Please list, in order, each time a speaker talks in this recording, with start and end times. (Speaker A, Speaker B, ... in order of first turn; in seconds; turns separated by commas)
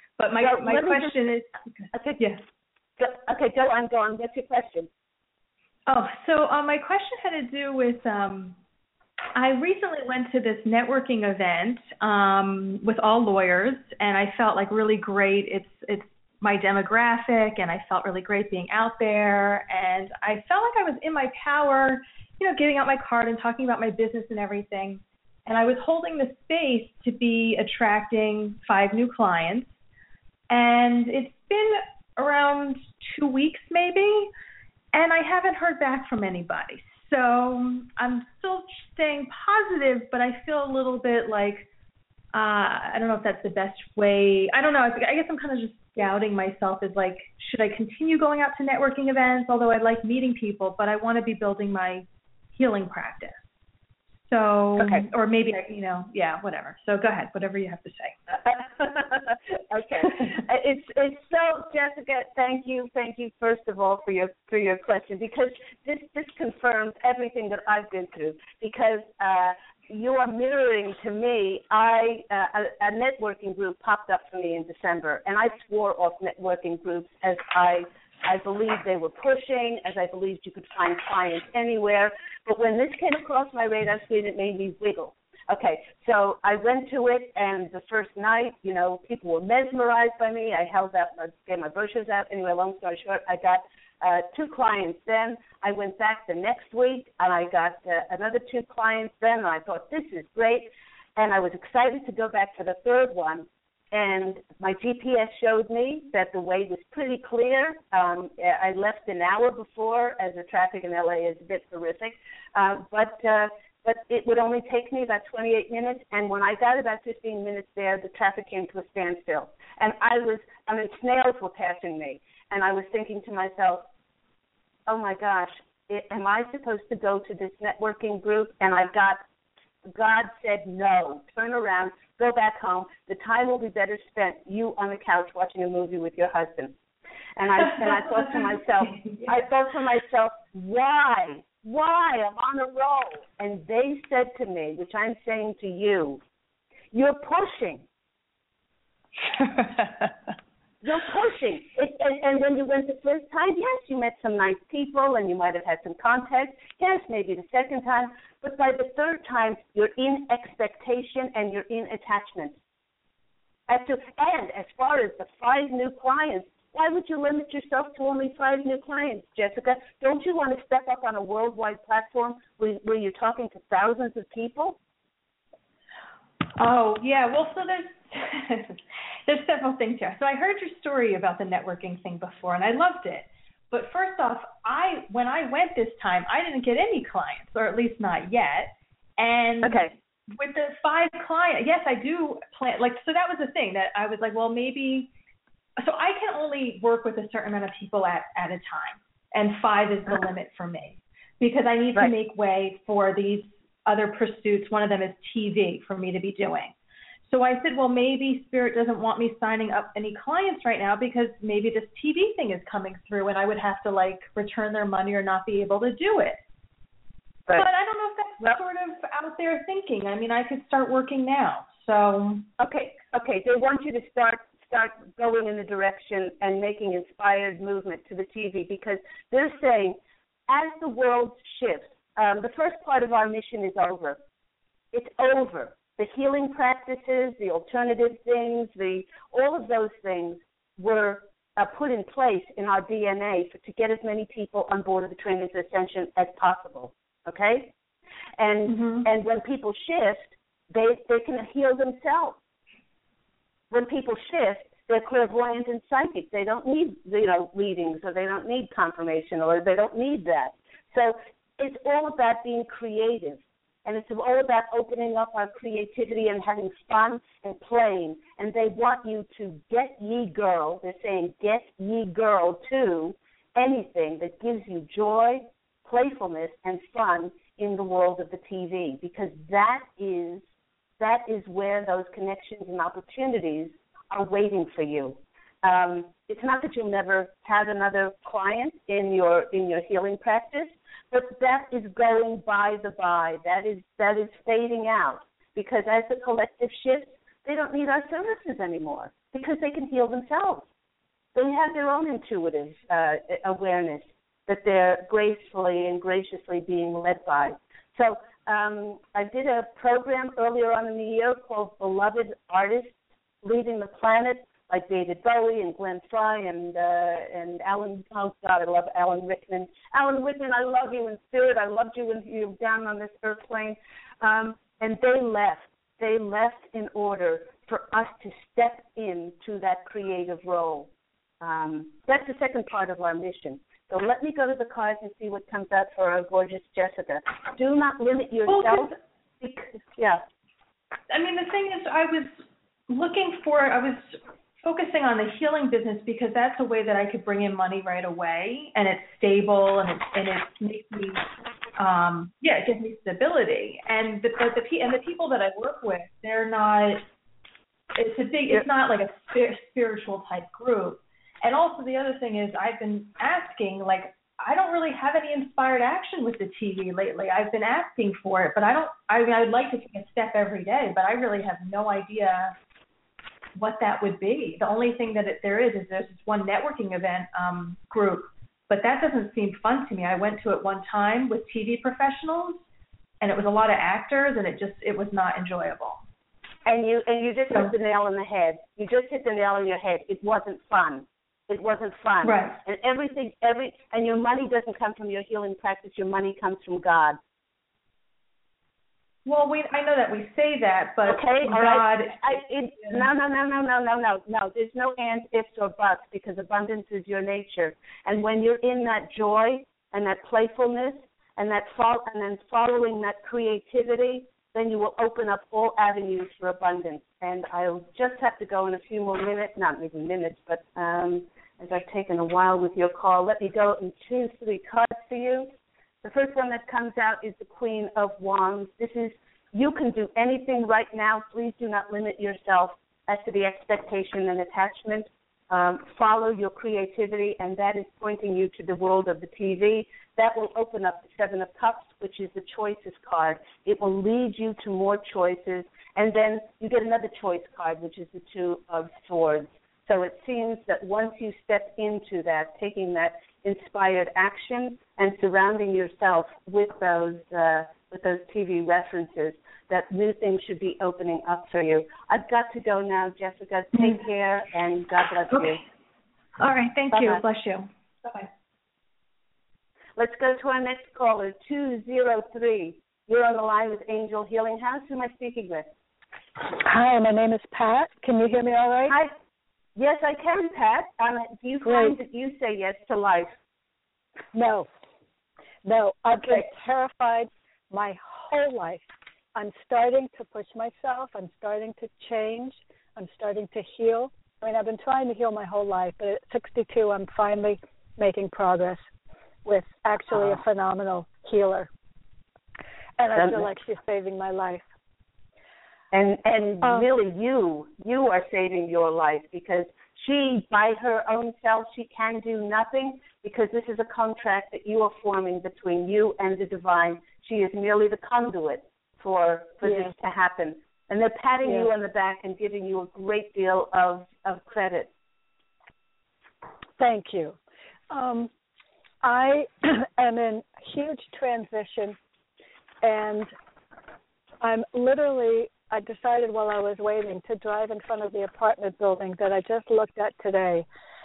Speaker A: 0.2-2.4, Speaker B: 0.4-1.2, Speaker B: 1.9-2.2, Speaker B: 3.0-4.9, Speaker A: 5.9-8.6, Speaker A: 9.3-29.8, Speaker A: 30.5-34.3, Speaker A: 34.9-41.6, Speaker A: 42.3-53.5, Speaker A: 54.2-58.2, Speaker B: 54.8-55.1, Speaker B: 58.4-123.8, Speaker B: 124.9-129.2, Speaker B: 129.8-136.7, Speaker B: 137.4-146.2, Speaker B: 146.9-147.8, Speaker A: 149.4-150.1, Speaker B: 150.8-162.5, Speaker B: 163.7-174.8, Speaker A: 176.6-195.1, Speaker B: 189.6-189.9, Speaker A: 195.8-206.7, Speaker A: 207.2-216.4, Speaker A: 217.5-222.4, Speaker B: 222.6-230.0, Speaker B: 230.5-234.2, Speaker B: 234.9-247.7, Speaker B: 248.4-252.4, Speaker A: 248.7-249.1, Speaker B: 253.7-280.4, Speaker B: 281.0-300.6, Speaker B: 301.3-330.9, Speaker B: 331.4-340.2, Speaker A: 338.5-338.9, Speaker A: 341.1-351.2, Speaker A: 351.8-357.1, Speaker A: 357.9-372.6, Speaker A: 373.6-382.6, Speaker A: 383.2-386.0, Speaker B: 386.6-397.2, Speaker A: 392.2-392.6, Speaker A: 399.2-403.0, Speaker B: 401.1-425.5, Speaker B: 426.0-465.6, Speaker A: 465.3-465.6, Speaker A: 466.4-468.3, Speaker B: 466.9-467.2, Speaker B: 470.0-475.7, Speaker C: 476.4-478.9, Speaker B: 478.9-479.1, Speaker B: 479.8-483.3, Speaker C: 481.6-481.9, Speaker C: 484.3-484.7, Speaker C: 485.6-488.8, Speaker B: 486.2-486.5, Speaker C: 489.3-498.9, Speaker C: 499.4-501.7, Speaker B: 500.1-500.4, Speaker C: 503.0-504.6, Speaker B: 503.1-503.5, Speaker B: 505.9-524.9, Speaker C: 519.6-519.9, Speaker C: 526.8-527.4, Speaker C: 527.9-528.3, Speaker C: 529.0-532.0, Speaker C: 532.8-533.3, Speaker C: 534.4-540.6